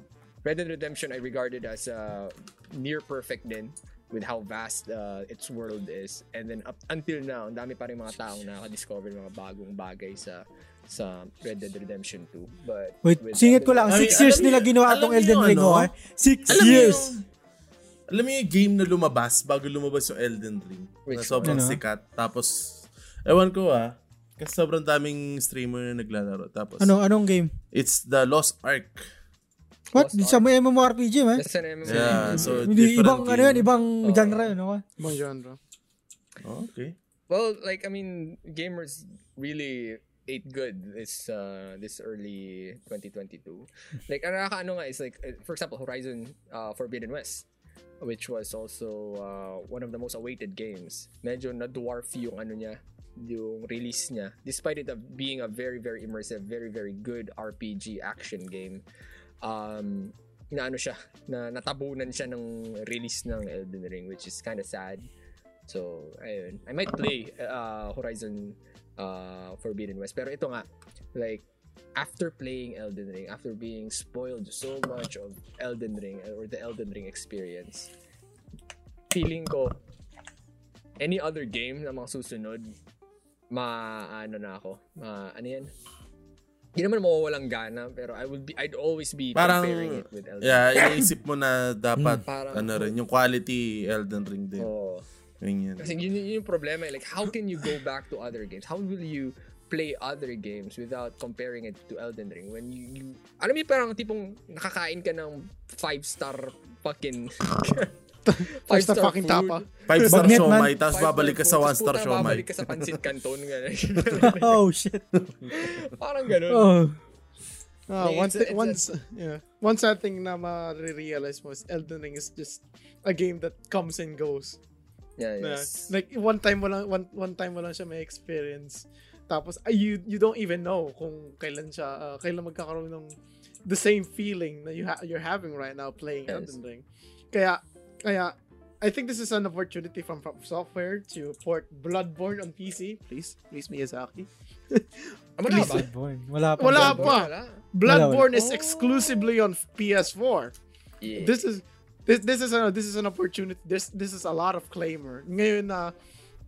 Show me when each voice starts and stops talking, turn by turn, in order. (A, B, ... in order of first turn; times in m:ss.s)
0:00.4-0:14.5 A
0:13.0-0:17.2 B
0:13.9-0:15.9 C
0:16.5-0:17.2 C
0:18.1-0:26.9 C
0:21.1-0:21.7 A
0:21.4-0:21.8 B
0:26.8-0:27.5 B
0:27.7-0:29.0 C
0:29.9-0:30.5 A
0:29.9-0:34.8 B
0:31.4-0:32.7 A
0:31.8-0:33.7 C
0:34.0-0:34.5 A
0:35.0-0:35.6 D
0:36.4-0:37.0 C
0:37.3-0:47.5 A
0:48.0-0:58.8 A
0:59.4-1:05.0 A
1:05.7-1:11.4 A
1:12.0-1:17.9 A
1:19.1-1:19.8 A
1:21.0-1:22.7 A
1:23.5-1:25.7 A
1:26.8-1:31.0 A
1:29.4-1:34.7 C
1:32.2-1:32.9 A
1:34.6-1:35.0 A
1:35.4-1:36.0 C
1:35.8-1:47.9 A
1:48.3-1:50.3 D
1:48.4-1:49.6 A
1:49.9-1:53.0 C
1:50.0-1:50.7 B
1:50.7-1:54.6 A
1:54.2-1:55.1 B
1:55.5-1:56.8 A
1:56.5-1:57.0 B
1:57.9-2:04.6 D
1:58.0-1:58.9 A
2:05.2-2:05.9 A
2:05.4-2:13.2 D
2:13.7-2:25.8 D
2:16.3-2:16.6 A
2:25.4-2:25.9 A
2:25.5-2:27.2 B
2:26.6-2:30.6 D
2:26.6-2:27.6 A
2:27.8-2:28.3 B
2:28.3-2:29.2 A
2:31.0-2:31.4 A
2:31.2-2:35.9 D